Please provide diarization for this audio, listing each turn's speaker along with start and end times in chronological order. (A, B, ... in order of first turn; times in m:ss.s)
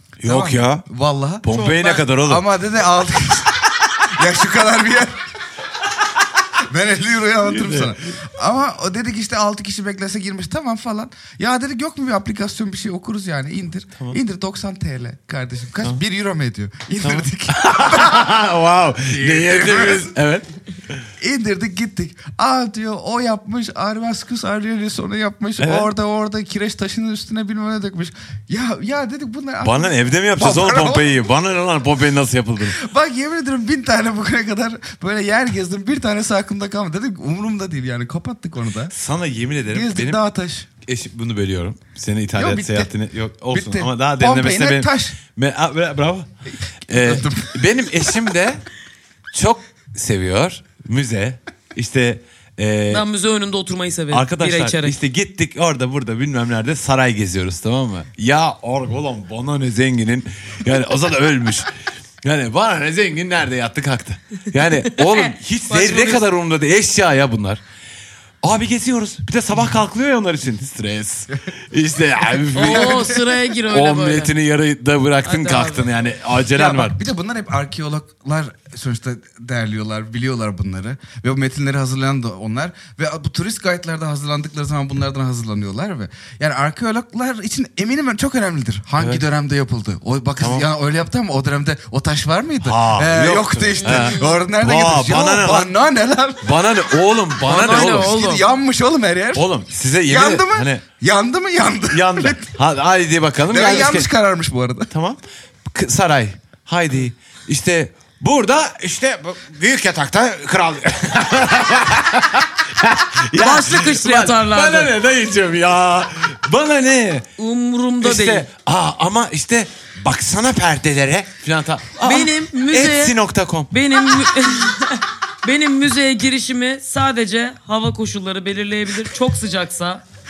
0:00.2-0:00.8 A
0:00.2-0:01.4 B
0:01.4-0:02.4 A
0:01.5-0:02.0 C
0:02.2-0:05.3 B
0:06.6-0:18.4 B
0:07.5-0:08.0 A
0:17.0-0:21.0 A
0:19.1-0:20.1 B
0:21.2-0:31.2 B
0:25.6-0:25.9 A
0:29.6-0:32.8 A
0:32.7-0:38.9 B
0:38.9-0:40.2 A
0:39.7-0:40.7 B
0:40.8-0:46.3 A
0:42.3-0:42.9 B
0:43.5-0:45.2 B
0:46.9-0:48.6 A
0:46.9-0:47.6 B
0:49.3-0:53.0 A
0:52.9-0:55.0 C
0:54.1-1:01.7 A
1:02.2-1:07.6 A
1:04.9-1:06.3 C
1:08.4-1:13.1 A
1:12.5-1:13.3 B
1:12.5-1:14.3 C
1:13.7-1:17.0 A
1:15.2-1:16.1 C
1:16.5-1:36.5 B
1:29.0-1:29.2 A
1:30.4-1:30.7 A
1:32.6-1:35.7 A
1:33.8-1:34.3 C
1:36.4-1:38.2 A
1:37.4-1:38.4 C
1:37.7-1:39.5 B
1:39.3-1:40.8 A
1:40.1-1:42.5 B
1:41.9-1:44.1 A
1:43.5-1:44.9 B
1:44.9-1:57.3 A
1:53.4-1:54.9 C
1:57.4-1:58.5 C
1:58.0-2:03.7 A
2:02.0-2:03.2 C
2:03.7-2:10.0 C